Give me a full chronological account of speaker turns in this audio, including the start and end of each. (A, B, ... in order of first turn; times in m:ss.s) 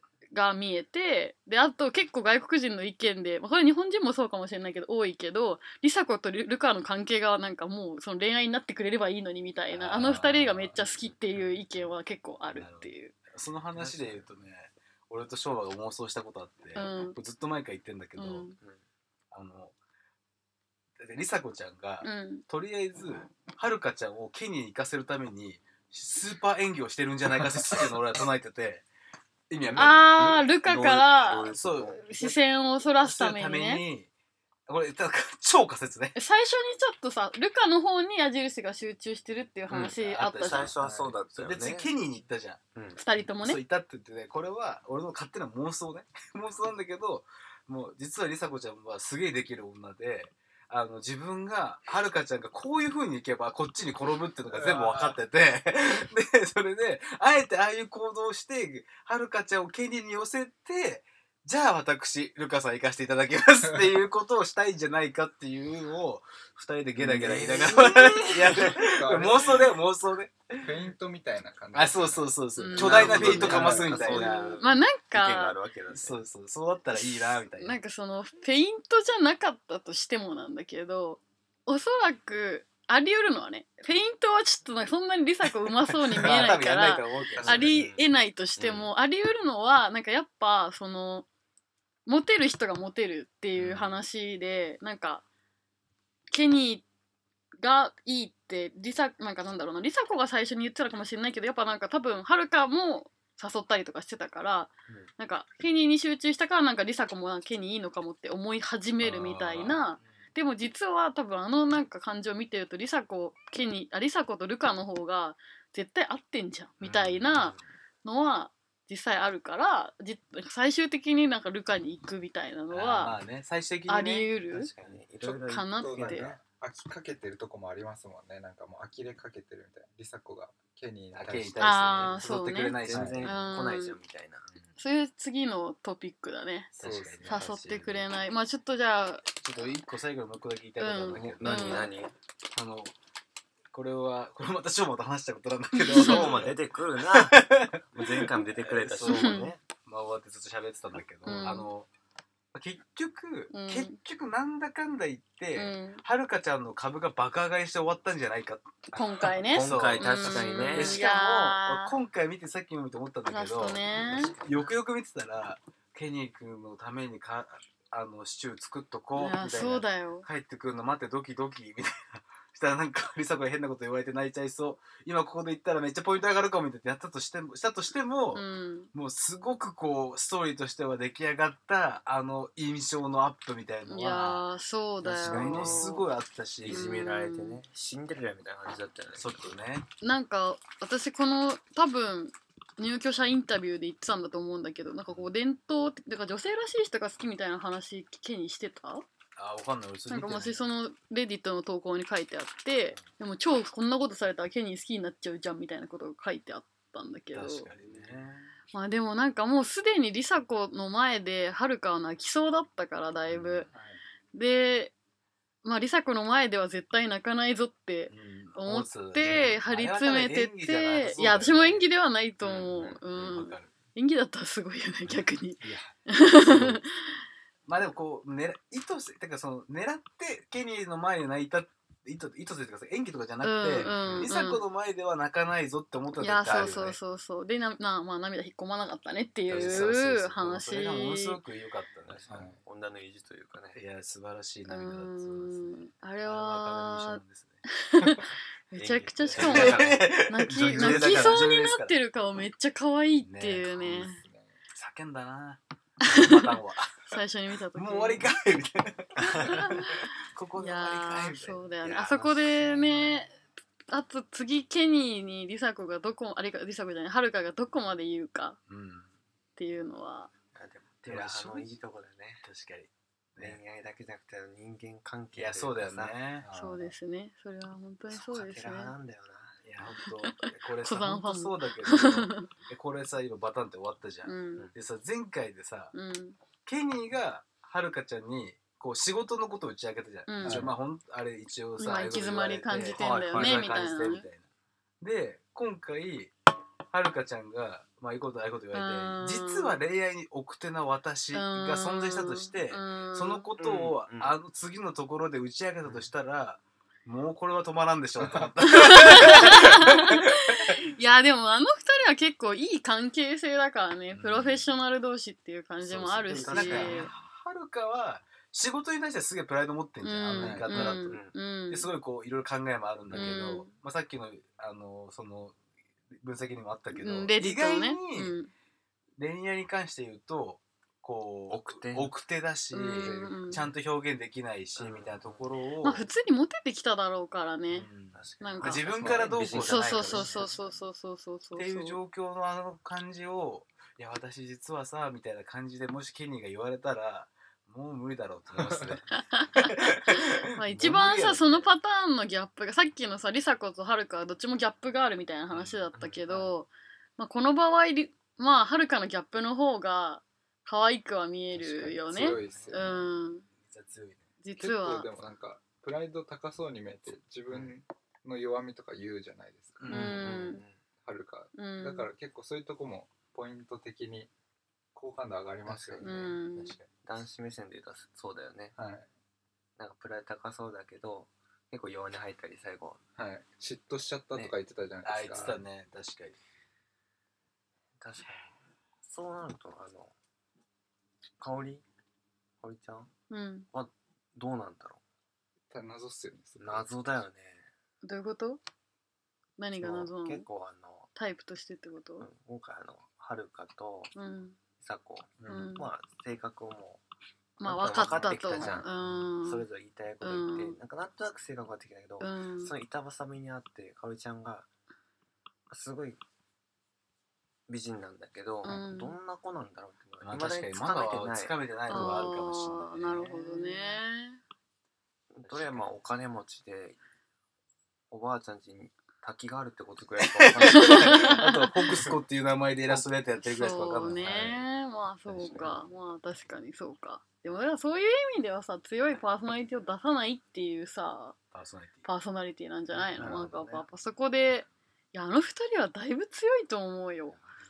0:00.3-0:13.1 A
0:09.7-0:10.8 B
0:12.5-0:18.5 B
0:13.8-0:14.3 C
0:16.8-0:17.2 A
0:18.2-0:18.6 A
0:19.3-0:19.7 B
0:21.0-0:28.9 B
0:22.0-0:22.4 A
0:29.5-0:30.5 B
0:29.6-0:30.0 C
0:29.8-0:33.8 A
0:30.6-0:32.1 C
0:31.5-0:32.4 B
0:33.0-0:34.1 B
0:34.7-0:36.2 B
0:36.2-0:40.7 A
0:39.7-0:42.6 B
0:40.4-0:41.9 C
0:40.8-0:41.1 D
0:42.8-0:43.0 C
0:43.0-0:43.6 A
0:43.4-1:10.6 B
0:54.5-0:55.2 D
1:03.6-1:03.9 D
1:07.0-1:08.8 C
1:07.6-1:08.4 A
1:08.6-1:09.7 D
1:10.6-1:14.3 D
1:11.7-1:14.6 B
1:12.6-1:15.6 A
1:12.8-1:16.2 C
1:15.9-1:17.8 B
1:16.9-1:31.3 A
1:25.9-1:27.8 B
1:27.4-1:27.7 D
1:27.5-1:28.9 C
1:32.1-1:35.2 A
1:36.3-1:36.8 A
1:37.6-2:03.2 A
1:49.0-1:49.8 B
1:56.8-1:57.6 B
2:02.7-2:04.3 B
2:03.9-2:04.7 A
2:04.5-2:06.4 C
2:05.2-2:11.7 D
2:05.5-2:06.3 A
2:11.1-2:13.4 B
2:11.6-2:14.0 A
2:12.8-2:14.5 C
2:12.9-2:13.2 D
2:14.8-2:19.4 A
2:16.8-2:18.1 B
2:16.8-2:17.4 D
2:19.4-2:21.9 B
2:20.8-2:21.9 A
2:21.1-2:22.1 C
2:22.5-2:22.9 B
2:23.7-2:31.9 B
2:25.8-2:26.4 A
2:25.9-2:29.6 C
2:29.0-2:29.5 A
2:31.2-2:31.7 A
2:32.5-2:43.8 B
2:33.5-2:34.0 A
2:35.6-2:36.0 A
2:38.9-2:42.0 A
2:39.4-2:41.1 C
2:43.3-2:44.3 A
2:44.1-2:44.7 C
2:44.4-3:04.5 B
2:49.2-2:50.3 A
2:58.3-2:58.9 A
3:03.9-3:06.0 A
3:05.0-3:06.0 C
3:05.2-3:07.0 B
3:06.6-3:09.6 C
3:06.7-3:07.6 A
3:09.2-3:09.9 B
3:10.0-3:19.1 A
3:19.4-3:20.7 B
3:20.1-3:27.7 A
3:27.3-3:28.5 B
3:28.7-3:33.7 A
3:33.3-3:33.7 B
3:33.7-3:34.0 D
3:34.3-3:34.9 A
3:35.6-3:47.2 A
3:38.1-3:41.9 B
3:42.4-3:43.7 B
3:42.7-3:43.0 C
3:45.6-3:46.8 B
3:47.7-3:57.0 B
3:53.4-3:54.6 A
3:53.8-3:54.2 D
3:56.2-4:01.4 A
3:59.5-4:02.5 B
3:59.5-3:59.9 C
4:02.1-4:03.8 C
4:02.3-4:02.6 D
4:03.7-4:07.6 B
4:04.7-4:14.2 A
4:08.8-4:11.5 C
4:09.2-4:12.0 B
4:13.2-4:14.1 B
4:14.0-4:14.6 D
4:14.7-4:17.2 B
4:16.0-4:16.6 A
4:17.1-4:18.3 A
4:17.7-4:21.7 B
4:19.2-4:23.4 A
4:21.8-4:23.2 C
4:23.9-4:28.6 A
4:28.7-4:29.1 B
4:29.6-4:30.3 A
4:30.5-4:32.4 C
4:31.0-4:31.8 B
4:32.4-4:33.6 B
4:33.4-4:36.2 C
4:35.3-4:36.5 B
4:36.4-4:36.9 D
4:36.5-4:38.9 A
4:38.1-4:39.7 C
4:39.6-4:45.9 B
4:40.1-4:42.5 A
4:44.2-4:44.7 A
4:45.9-4:46.4 A
4:46.6-4:54.5 B
4:50.3-4:50.7 A
4:50.4-4:50.7 D
4:51.8-4:54.3 A
4:53.3-4:53.6 D
4:55.0-4:56.3 B
4:56.9-5:10.4 B
4:58.7-4:59.8 A
5:01.3-5:03.5 A
5:03.6-5:04.4 C
5:05.8-5:06.1 C
5:08.2-5:08.5 D
5:08.6-5:17.1 A
5:14.1-5:14.8 B
5:15.8-5:17.1 C
5:16.3-5:21.2 B
5:20.0-5:21.9 A
5:20.4-5:20.7 D
5:20.7-5:21.4 C
5:21.7-5:25.6 B
5:23.1-5:23.7 A
5:26.2-5:28.4 B
5:26.9-5:28.5 A
5:29.2-5:36.1 B
5:31.5-5:32.1 C
5:32.7-5:33.6 A
5:34.8-5:35.4 C
5:35.8-5:37.9 A
5:37.7-5:40.5 B
5:38.1-5:40.7 C
5:38.4-5:38.9 A
5:39.0-5:39.6 D
5:39.5-5:42.0 A
5:41.6-5:51.7 B
5:48.5-5:49.0 D
5:49.1-6:03.5 A
5:55.5-5:55.9 B
5:55.9-5:56.5 C
6:01.6-6:02.9 D
6:02.1-6:03.0 B
6:03.5-6:04.3 B
6:04.4-6:05.1 A
6:04.6-6:09.9 D
6:09.8-6:10.2 B
6:09.9-6:10.8 C
6:09.9-6:10.6 A
6:11.0-6:14.3 D
6:11.6-6:12.1 A
6:15.0-6:16.3 D
6:15.7-6:16.4 C
6:16.0-6:16.8 A
6:16.6-6:16.9 B
6:17.0-6:18.8 C
6:18.8-6:19.1 D
6:19.8-6:23.0 C
6:23.2-6:25.6 D
6:24.4-6:26.4 B
6:28.0-6:30.1 C
6:31.4-6:31.8 C
6:32.6-6:33.1 C
6:33.3-6:33.7 A
6:33.7-6:35.0 C
6:35.7-6:37.2 D
6:36.6-6:37.7 C
6:38.0-6:38.6 A
6:39.6-6:40.5 A
6:39.7-6:41.1 C
6:41.2-6:42.3 A
6:42.2-6:44.1 C
6:44.2-6:44.6 A
6:44.8-6:47.0 C
6:45.4-6:45.7 B
6:45.5-6:45.9 A
6:47.6-6:54.7 C
6:47.6-6:49.7 A
6:48.2-6:48.8 B
6:50.2-6:50.8 A
6:52.2-6:52.7 A
6:55.7-6:56.2 C
6:57.7-7:02.3 C
6:58.6-6:59.2 A
7:00.2-7:03.3 B
7:01.9-7:04.4 A
7:03.1-7:04.0 C
7:05.3-7:07.0 C
7:05.4-7:05.9 B
7:08.1-7:11.5 C
7:10.2-7:14.6 B
7:10.6-7:11.7 A
7:13.4-7:21.4 A
7:15.3-7:15.8 C
7:21.5-7:22.1 B
7:22.0-7:27.4 A
7:22.9-7:23.9 C